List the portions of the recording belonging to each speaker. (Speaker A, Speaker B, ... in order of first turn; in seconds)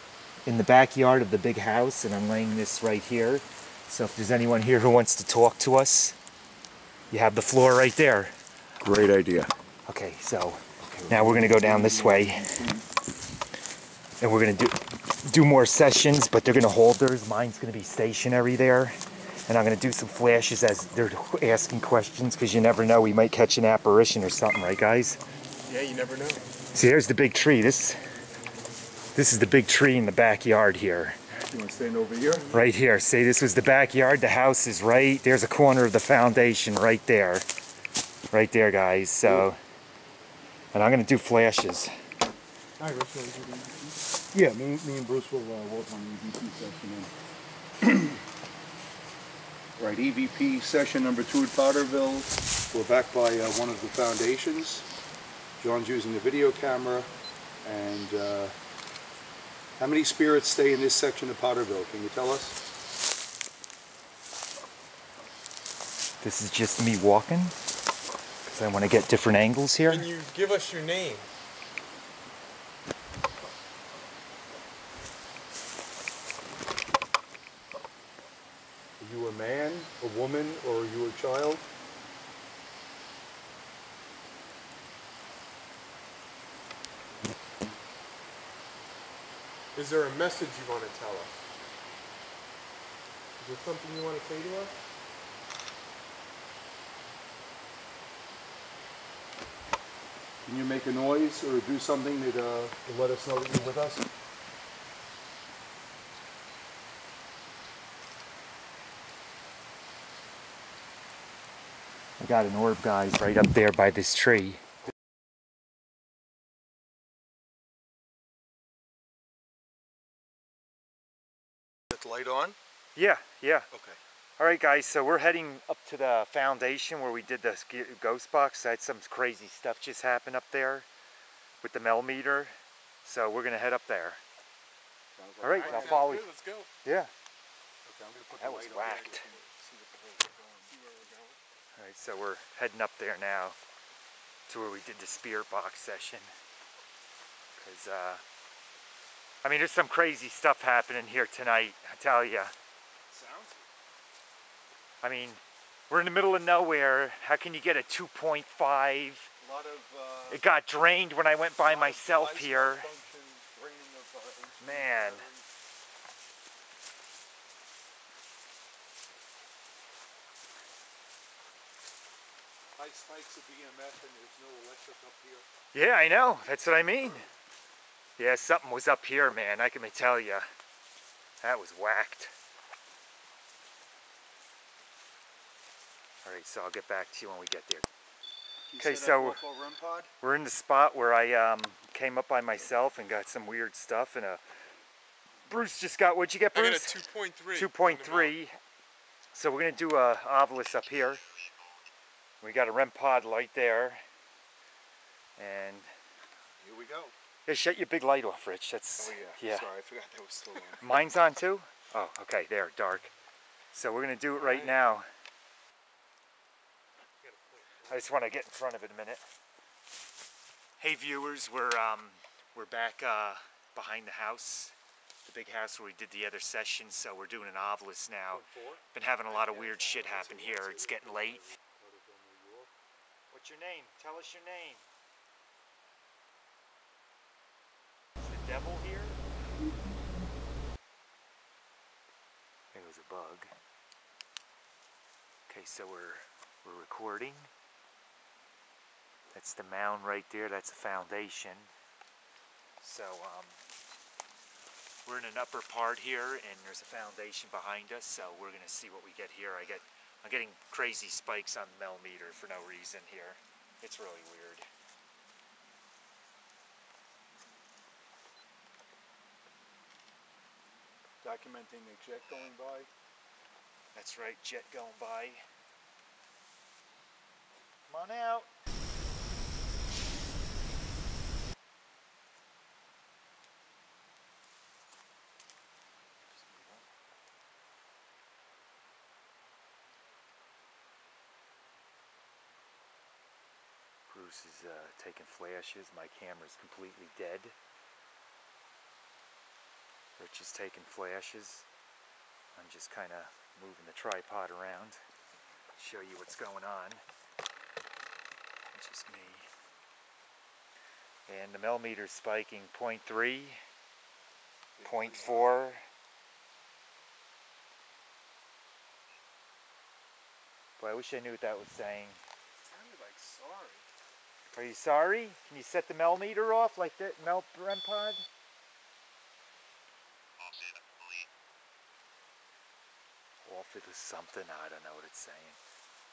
Speaker A: 0.4-6.2, 7.1-8.3, 9.9-12.5, 14.2-18.9, 19.5-25.2, 26.7-27.9, 29.1-31.2, 32.5-37.4, 38.3-39.6, 40.7-41.9, 66.2-67.5, 68.5-70.1, 112.2-114.6, 123.0-123.7, 124.4-130.9, 131.6-132.5, 133.0-134.2, 135.4-136.3, 136.8-137.1, 138.4-139.2, 141.8-143.6, 144.5-146.2, 147.6-148.2, 149.4-152.5, 155.0-159.3, 160.3-162.9, 164.6-165.2, 175.7-177.2, 178.2-180.4, 181.4-182.3, 186.2-187.9, 188.8-189.4, 190.2-194.4, 195.5-197.0, 197.5-198.6, 199.3-201.2, 202.4-204.0, 205.4-205.9, 207.4-209.7, 210.8-213.1, 213.7-215.1, 217.9-219.2, 220.8-231.4, 233.3-234.8, 238.2-239.2, 242.7-243.5, 245.5-247.5, 249.3-251.7, 252.8-253.6, 255.1-264.6, 273.9-275.4, 277.9-278.5, 286.4-286.8, 294.1-297.5, 300.2-301.6, 302.6-305.0, 305.8-307.0, 308.7-309.4, 311.3-313.6, 314.8-315.8, 320.8-322.2, 324.5-328.2, 333.4-335.6
Speaker B: 8.8-9.5, 10.9-12.8, 31.5-32.5, 44.3-47.1, 47.8-48.2, 49.8-54.9, 55.6-57.1, 57.6-58.5, 59.8-62.5, 79.0-81.6, 100.4-104.0, 121.9-122.5, 123.7-124.0, 135.2-136.2, 137.8-140.7, 153.1-153.7, 159.4-160.4, 161.6-165.4, 172.8-175.4, 188.7-190.1, 206.6-207.1, 209.0-210.9, 228.3-232.7, 271.2-272.9, 314.8-315.5
Speaker C: 25.7-26.4, 42.8-44.0, 69.9-71.3, 89.7-91.3, 93.4-94.7, 135.5-136.7, 138.8-139.3, 140.6-141.4, 196.5-198.4, 214.4-214.7, 322.7-323.9